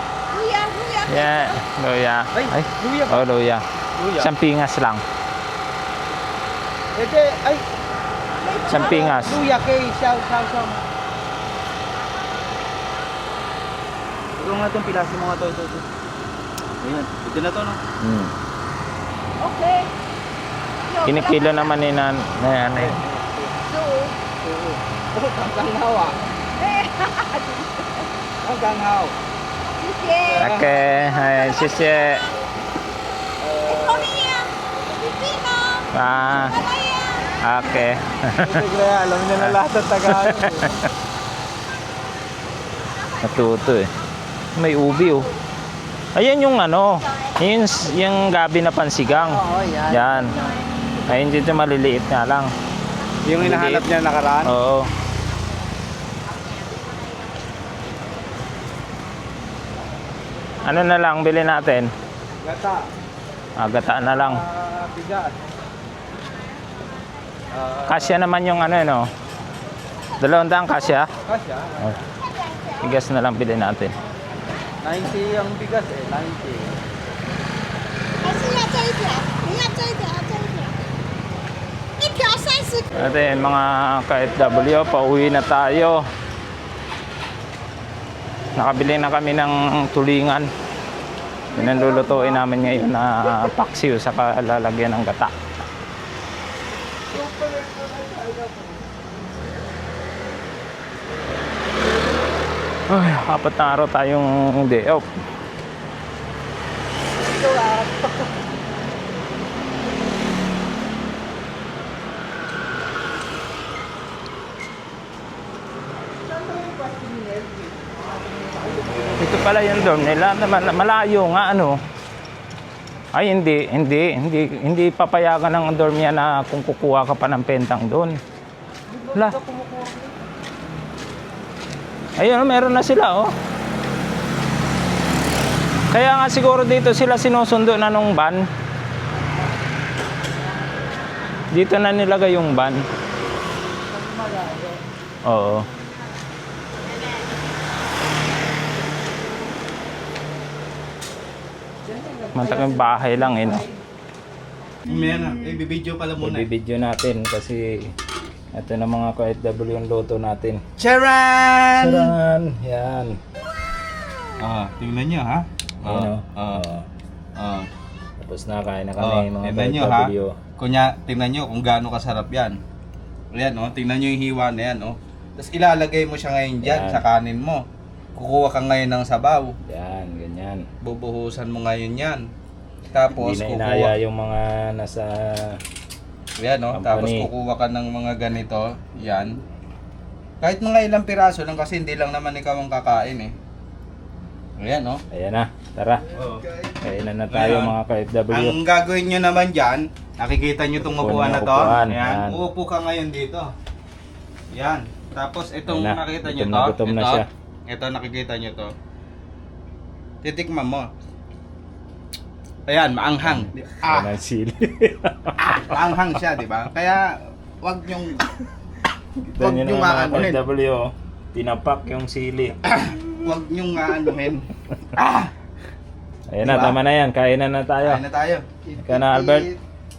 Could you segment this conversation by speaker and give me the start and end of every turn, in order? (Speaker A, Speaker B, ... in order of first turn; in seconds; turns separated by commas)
Speaker A: 0.3-1.6, Speaker B: 1.1-5.0, Speaker C: 2.3-3.2, Speaker C: 3.9-4.3, Speaker C: 6.9-7.7, Speaker A: 8.5-8.8, Speaker C: 8.6-10.8, Speaker B: 8.7-9.4, Speaker C: 14.4-15.9, Speaker C: 16.8-17.8, Speaker B: 18.0-18.3, Speaker A: 19.4-19.9, Speaker B: 21.0-23.0, Speaker C: 22.7-23.6, Speaker A: 23.7-24.1, Speaker C: 24.4-26.2, Speaker A: 26.6-27.9, Speaker C: 28.4-29.1, Speaker A: 29.8-30.5, Speaker C: 30.2-30.7, Speaker B: 30.4-32.3, Speaker C: 33.4-34.2, Speaker A: 33.9-35.9, Speaker B: 35.9-36.6, Speaker A: 36.5-37.1, Speaker B: 37.4-38.6, Speaker C: 38.4-40.8, Speaker B: 43.2-43.9, Speaker B: 44.5-45.3, Speaker B: 46.1-50.5, Speaker C: 49.5-49.8, Speaker B: 51.0-52.5, Speaker C: 53.2-54.5, Speaker B: 53.4-53.8, Speaker B: 54.4-54.9, Speaker B: 60.6-61.9, Speaker C: 62.4-62.9, Speaker B: 63.6-64.4, Speaker C: 64.0-65.4, Speaker C: 67.5-68.2, Speaker B: 67.8-69.1, Speaker B: 70.2-71.1, Speaker C: 71.2-72.0, Speaker B: 72.8-73.9, Speaker C: 74.8-76.8, Speaker A: 78.2-80.7, Speaker A: 82.0-82.9, Speaker B: 82.9-86.1, Speaker B: 88.5-90.5, Speaker B: 91.5-95.3, Speaker C: 97.2-98.4, Speaker B: 102.9-105.1, Speaker C: 116.3-117.9, Speaker C: 118.4-119.1, Speaker B: 119.1-121.8, Speaker B: 123.1-128.2, Speaker C: 128.9-130.2, Speaker B: 132.2-133.3, Speaker B: 135.9-138.5, Speaker B: 141.5-142.8, Speaker B: 145.2-145.7, Speaker B: 152.3-153.7, Speaker C: 154.8-156.5, Speaker B: 156.2-157.9, Speaker B: 158.5-160.6, Speaker C: 160.8-162.2, Speaker B: 161.8-163.2, Speaker C: 164.4-166.6, Speaker B: 165.8-166.8, Speaker C: 167.3-167.7, Speaker B: 168.2-170.4, Speaker C: 169.0-172.6, Speaker C: 173.3-177.6, Speaker B: 176.6-177.0, Speaker C: 178.1-179.6, Speaker B: 179.6-180.7, Speaker C: 180.8-182.3, Speaker C: 182.9-183.9, Speaker B: 183.1-185.6, Speaker C: 186.3-189.4, Speaker B: 186.7-187.3, Speaker C: 190.4-193.3, Speaker C: 194.6-195.0, Speaker B: 195.1-196.2, Speaker C: 196.1-196.6, Speaker B: 196.8-198.6, Speaker C: 197.3-197.8, Speaker C: 198.3-203.5, Speaker B: 200.8-202.4, Speaker C: 204.5-208.7, Speaker B: 205.7-207.3, Speaker C: 210.2-210.9, Speaker C: 212.7-214.1, Speaker B: 213.3-215.9, Speaker C: 215.4-218.3, Speaker B: 219.2-222.8, Speaker C: 219.3-220.4, Speaker C: 222.8-225.3, Speaker B: 226.3-228.0, Speaker C: 226.4-226.8, Speaker C: 227.8-229.6, Speaker B: 228.8-229.5